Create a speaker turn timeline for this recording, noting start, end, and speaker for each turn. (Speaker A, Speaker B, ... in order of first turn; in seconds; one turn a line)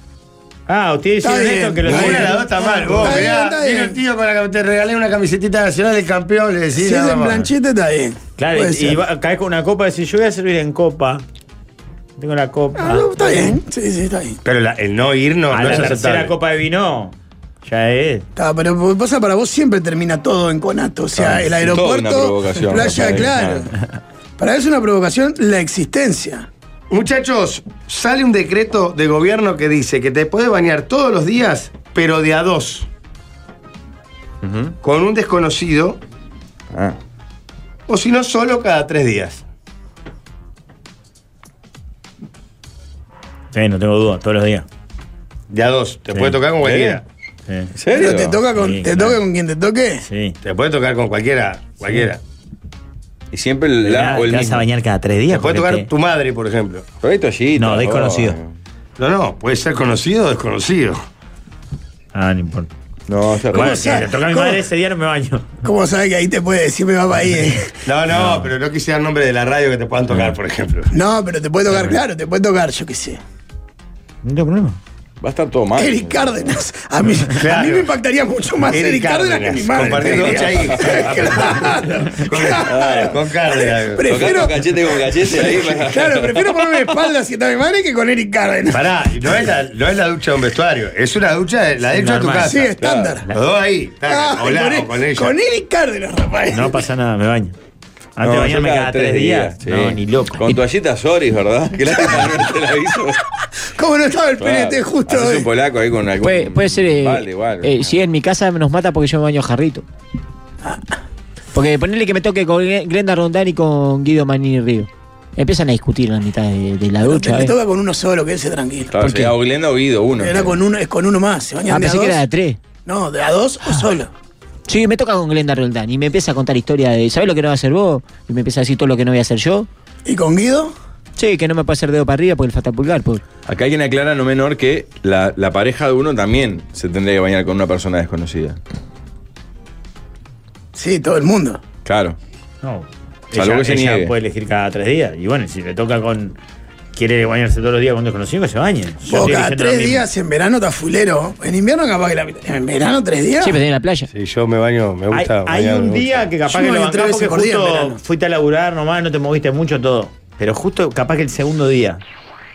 Speaker A: 0.7-3.3
Speaker B: 1.2-4.0
Speaker C: 1.8-7.4
Speaker B: 6.7-9.0
Speaker A: 8.4-11.2
Speaker A: 12.2-13.5
Speaker B: 12.8-14.4
Speaker C: 14.4-16.3
Speaker A: 15.5-18.3
Speaker B: 18.4-23.7
Speaker D: 21.7-23.7
Speaker B: 24.4-26.5
Speaker C: 26.9-32.9
Speaker D: 34.4-34.7
Speaker C: 34.8-36.0
Speaker C: 37.9-39.4
Speaker A: 43.5-44.7
Speaker C: 45.5-47.0
Speaker A: 46.1-46.4
Speaker D: 46.6-47.0
Speaker A: 47.5-47.7
Speaker D: 47.8-48.4
Speaker B: 47.9-50.0
Speaker A: 48.5-49.2
Speaker A: 50.1-50.4
Speaker C: 50.4-52.2
Speaker D: 53.3-54.6
Speaker A: 53.8-55.9
Speaker C: 55.3-56.9
Speaker D: 57.0-58.5
Speaker A: 57.6-58.4
Speaker C: 59.0-61.0
Speaker A: 62.1-62.7
Speaker D: 63.1-63.8
Speaker A: 63.5-65.6
Speaker B: 63.5-64.6
Speaker B: 65.6-67.7
Speaker C: 67.9-70.9
Speaker A: 68.1-68.5
Speaker B: 70.9-73.2
Speaker A: 74.2-74.8
Speaker D: 75.2-76.4
Speaker B: 75.8-88.9
Speaker C: 77.3-77.9
Speaker C: 78.7-81.3
Speaker C: 82.2-84.4
Speaker D: 82.7-83.1
Speaker D: 84.1-86.4
Speaker C: 88.7-92.7
Speaker A: 91.9-92.7
Speaker B: 92.4-93.2
Speaker D: 92.8-93.2
Speaker C: 93.3-95.3
Speaker B: 94.1-96.8
Speaker A: 96.5-97.5
Speaker A: 98.2-100.6
Speaker D: 98.2-103.2
Speaker B: 103.8-105.5
Speaker D: 104.4-108.0
Speaker E: 106.2-109.8
Speaker E: 111.5-117.5
Speaker B: 117.0-118.9
Speaker D: 118.9-120.5
Speaker E: 119.0-119.3
Speaker B: 120.2-122.2
Speaker E: 121.7-122.6
Speaker B: 122.9-124.1
Speaker E: 124.7-129.7
Speaker B: 130.1-130.7
Speaker E: 131.2-133.2
Speaker D: 133.5-138.6
Speaker B: 140.7-141.6
Speaker D: 141.8-142.2
Speaker A: 142.6-146.4
Speaker D: 143.3-144.1
Speaker A: 146.9-150.1
Speaker B: 149.1-153.6
Speaker E: 153.4-154.1
Speaker C: 154.1-156.3
Speaker A: 155.1-162.0
Speaker B: 156.5-158.0